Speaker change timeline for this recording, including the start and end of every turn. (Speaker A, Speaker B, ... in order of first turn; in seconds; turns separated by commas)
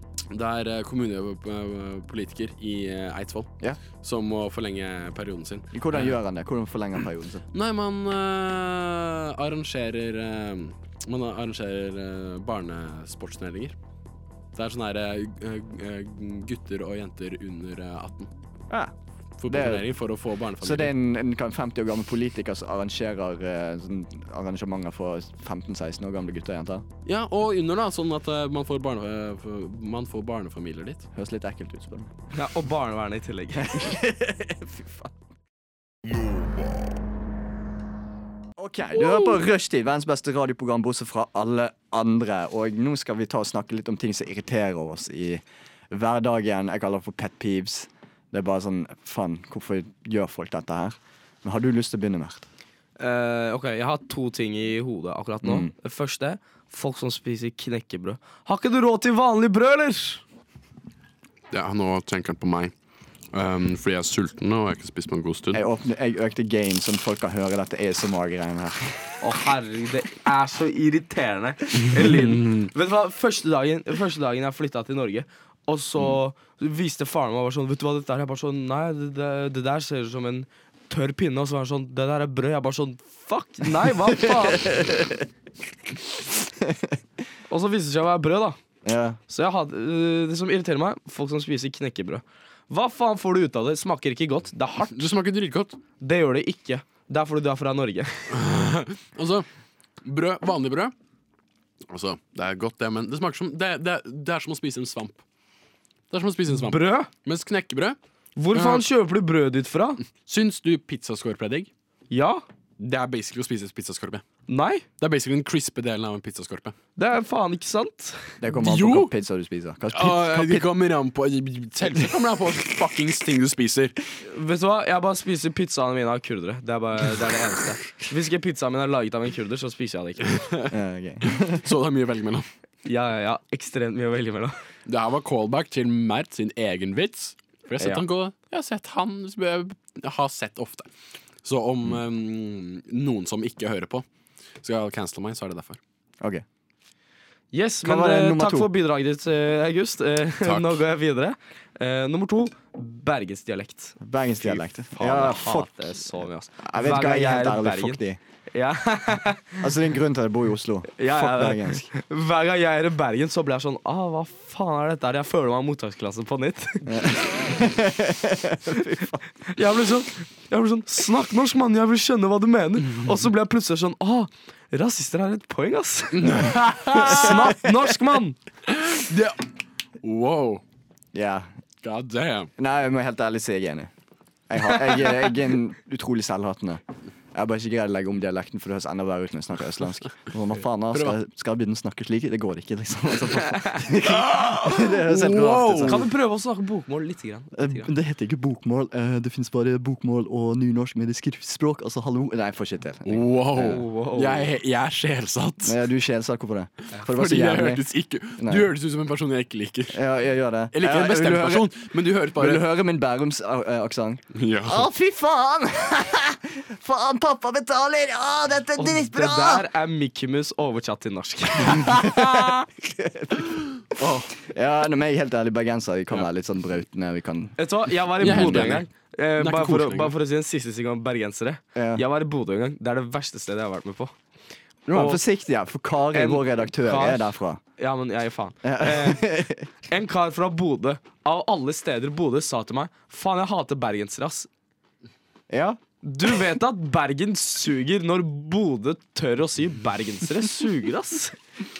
Speaker A: 0.3-6.2, Speaker B: 5.7-7.4, Speaker A: 7.5-13.8, Speaker A: 14.5-18.3, Speaker A: 19.4-20.9, Speaker B: 19.5-19.9, Speaker B: 20.6-26.8, Speaker A: 27.1-31.1, Speaker B: 31.1-32.2, Speaker C: 32.3-33.9, Speaker B: 33.6-35.1, Speaker B: 38.6-52.5, Speaker A: 38.9-39.4, Speaker C: 53.0-60.2, Speaker B: 55.4-55.7, Speaker A: 61.5-62.7, Speaker A: 63.3-65.6, Speaker B: 65.5-69.2, Speaker C: 69.2-84.8, Speaker A: 71.9-72.7, Speaker B: 84.5-85.2, Speaker B: 86.6-87.0, Speaker C: 87.5-88.6, Speaker B: 88.8-89.2, Speaker C: 89.3-95.0, Speaker A: 94.9-95.8, Speaker C: 96.0-98.3, Speaker A: 98.3-99.5, Speaker A: 100.0-100.9, Speaker A: 101.9-105.2, Speaker A: 106.1-108.0, Speaker C: 106.6-107.1, Speaker C: 108.3-110.0, Speaker A: 108.5-108.8, Speaker A: 110.2-111.7, Speaker C: 112.1-112.4, Speaker A: 112.8-114.2, Speaker C: 114.5-114.8, Speaker A: 115.0-116.7, Speaker C: 117.0-118.4, Speaker B: 118.4-120.7, Speaker A: 118.5-119.1, Speaker A: 119.9-124.0, Speaker C: 124.2-130.4, Speaker B: 130.7-131.6, Speaker A: 131.2-132.5, Speaker C: 132.8-134.6, Speaker A: 134.9-140.9, Speaker A: 141.4-144.0, Speaker A: 144.6-145.8, Speaker C: 147.5-154.0, Speaker B: 147.8-148.7, Speaker A: 150.4-150.8, Speaker B: 154.0-158.2, Speaker C: 154.9-158.0, Speaker C: 158.5-159.7, Speaker B: 159.6-161.9, Speaker C: 161.0-167.4, Speaker B: 166.8-169.3, Speaker C: 169.5-178.4, Speaker A: 176.2-177.4, Speaker B: 176.3-177.7, Speaker A: 178.7-179.4, Speaker A: 180.0-180.6, Speaker B: 181.1-181.5, Speaker A: 181.8-182.5, Speaker B: 182.6-183.9, Speaker B: 184.5-186.8, Speaker B: 187.3-196.1, Speaker A: 194.0-196.1, Speaker C: 195.8-197.9, Speaker B: 197.5-203.8, Speaker A: 203.0-205.8, Speaker C: 203.6-204.5, Speaker B: 205.6-207.8, Speaker A: 207.0-210.0, Speaker B: 208.4-208.7, Speaker B: 209.9-211.7, Speaker A: 210.7-212.6, Speaker B: 212.3-219.7, Speaker A: 214.3-214.8, Speaker C: 218.8-221.9, Speaker B: 221.7-223.5, Speaker A: 223.9-224.3, Speaker B: 224.4-227.6, Speaker C: 227.6-234.1, Speaker B: 228.2-228.7, Speaker A: 228.2-230.1, Speaker B: 231.7-232.0, Speaker B: 234.9-237.6, Speaker C: 234.9-235.2, Speaker C: 236.1-239.3, Speaker B: 238.6-239.7, Speaker C: 239.8-244.5, Speaker B: 245.5-245.8, Speaker C: 246.0-251.3